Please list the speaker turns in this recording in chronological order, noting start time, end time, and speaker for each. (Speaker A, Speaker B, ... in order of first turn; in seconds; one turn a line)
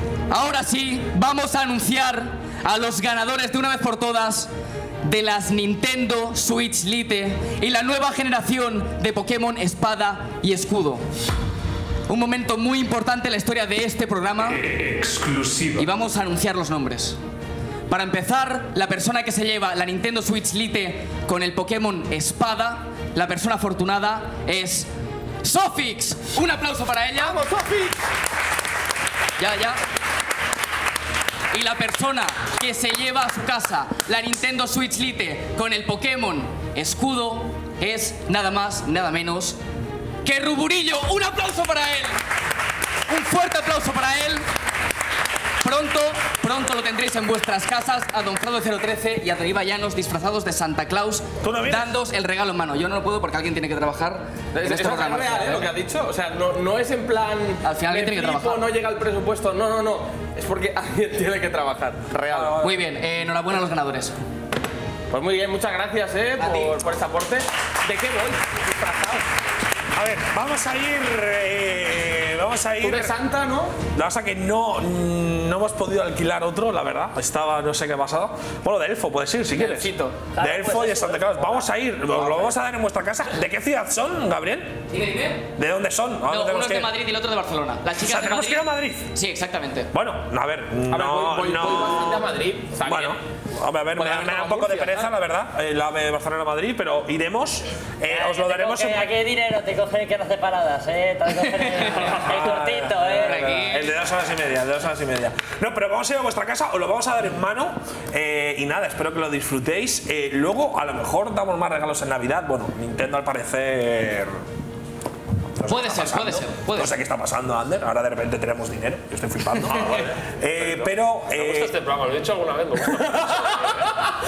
Speaker A: 0.3-4.5
Speaker A: 5.0-11.0
Speaker A: 12.1-14.6
Speaker B: 14.7-15.8
Speaker A: 15.8-17.2
Speaker A: 17.9-24.9
Speaker A: 25.4-27.4
Speaker C: 27.2-27.9
Speaker A: 29.4-29.8
Speaker A: 31.5-39.6
Speaker A: 40.2-42.2
Speaker A: 43.1-44.4
Speaker A: 45.6-55.7
Speaker D: 51.4-51.9
Speaker C: 54.5-62.6
Speaker A: 57.6-58.6
Speaker D: 62.3-62.8
Speaker A: 62.6-64.1
Speaker C: 65.1-69.3
Speaker D: 70.0-73.1
Speaker C: 72.8-73.8
Speaker D: 73.9-84.8
Speaker C: 79.5-80.3
Speaker E: 80.3-81.7
Speaker C: 82.1-82.5
Speaker A: 84.9-85.4
Speaker D: 85.5-86.9
Speaker A: 86.3-89.9
Speaker D: 88.0-89.0
Speaker D: 89.9-92.2
Speaker C: 90.9-93.2
Speaker D: 92.8-99.1
Speaker C: 93.9-95.1
Speaker E: 98.1-103.6
Speaker D: 102.0-114.3
Speaker A: 103.2-103.9
Speaker D: 115.6-121.7
Speaker A: 115.7-116.9
Speaker B: 119.7-123.8